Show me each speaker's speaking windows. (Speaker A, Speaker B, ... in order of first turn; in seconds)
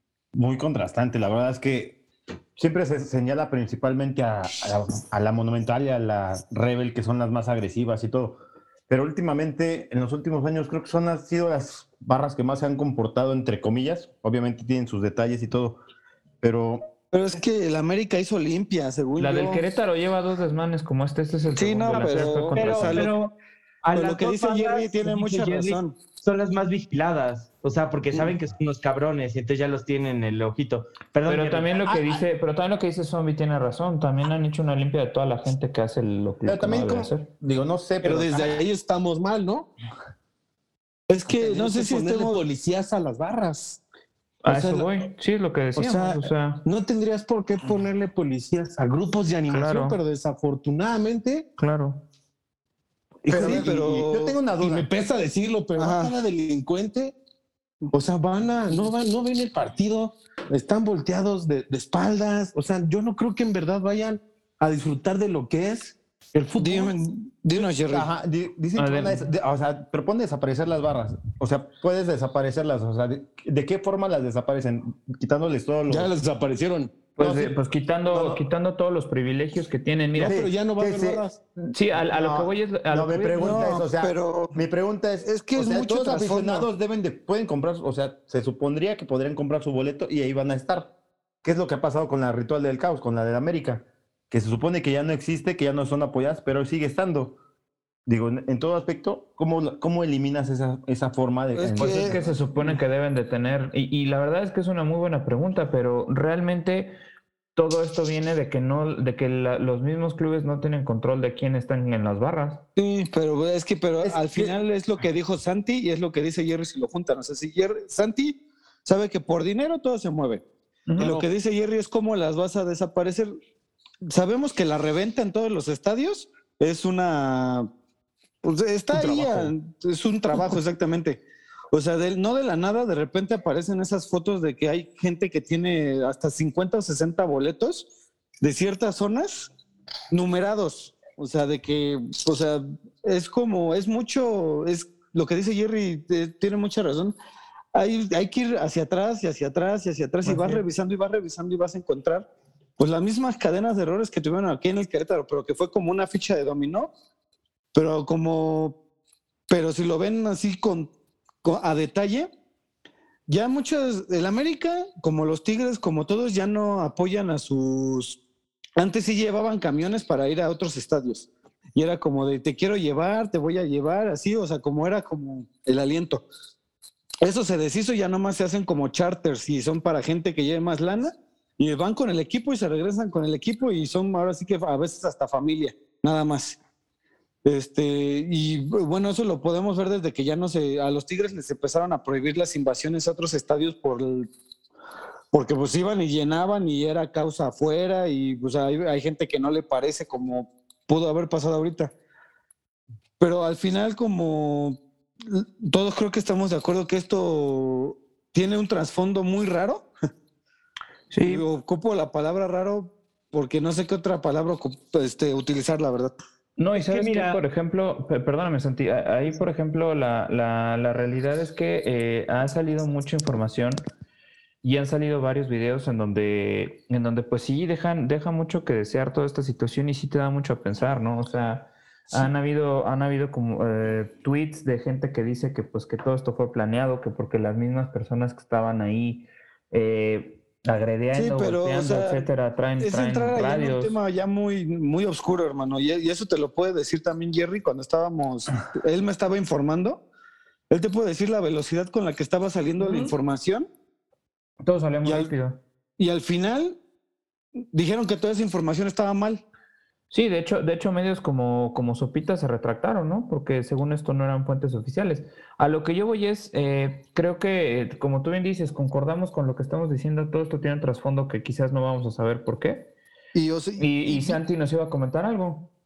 Speaker A: 0.3-2.0, 2.6-15.8, 16.4-16.8, 36.5-38.6, 53.3-54.9, 67.6-76.1, 77.2-77.5, 80.2-81.2, 82.1-90.9, 91.4-97.4, 98.1-102.2, 114.0-114.5
Speaker B: 17.1-19.7, 21.6-23.1, 23.9-26.0, 41.1-42.4, 53.3-54.4, 55.8-56.1, 66.6-68.1, 83.3-84.6, 85.2-86.7, 101.5-102.7, 112.8-120.4, 121.0-123.3, 124.1-127.7, 128.4-131.2, 131.7-137.9, 138.4-139.5, 140.1-147.2, 147.7-152.3, 152.8-156.9, 157.7-158.8, 159.5-160.9, 161.4-162.3, 163.3-168.2, 168.8-176.3, 177.2-186.6, 187.4-194.3, 195.3-201.9, 203.2-209.9, 211.2-216.2, 241.1-242.3, 242.8-250.0, 250.7-253.7, 255.0-255.3, 256.0-256.8, 257.7-259.4, 273.3-274.4
Speaker C: 19.2-23.1, 31.3-37.3, 44.4-46.7, 49.5-50.0, 51.6-52.0, 68.8-69.3, 77.2-80.4, 81.7-83.6, 101.8-107.0, 107.5-112.6, 120.9-121.1, 150.2-150.6, 211.1-211.4, 216.6-223.8, 224.6-244.0, 252.8-253.1, 254.6-255.6, 260.1-272.9, 273.8-275.7
Speaker D: 21.9-23.3, 23.8-31.8, 216.7-217.4
Speaker E: 38.0-39.7, 41.3-43.8, 44.5-44.9, 45.8-51.5, 53.2-57.1, 57.9-67.0, 75.9-77.0, 78.1-78.4, 80.1-81.4, 121.0-121.3, 128.9-129.5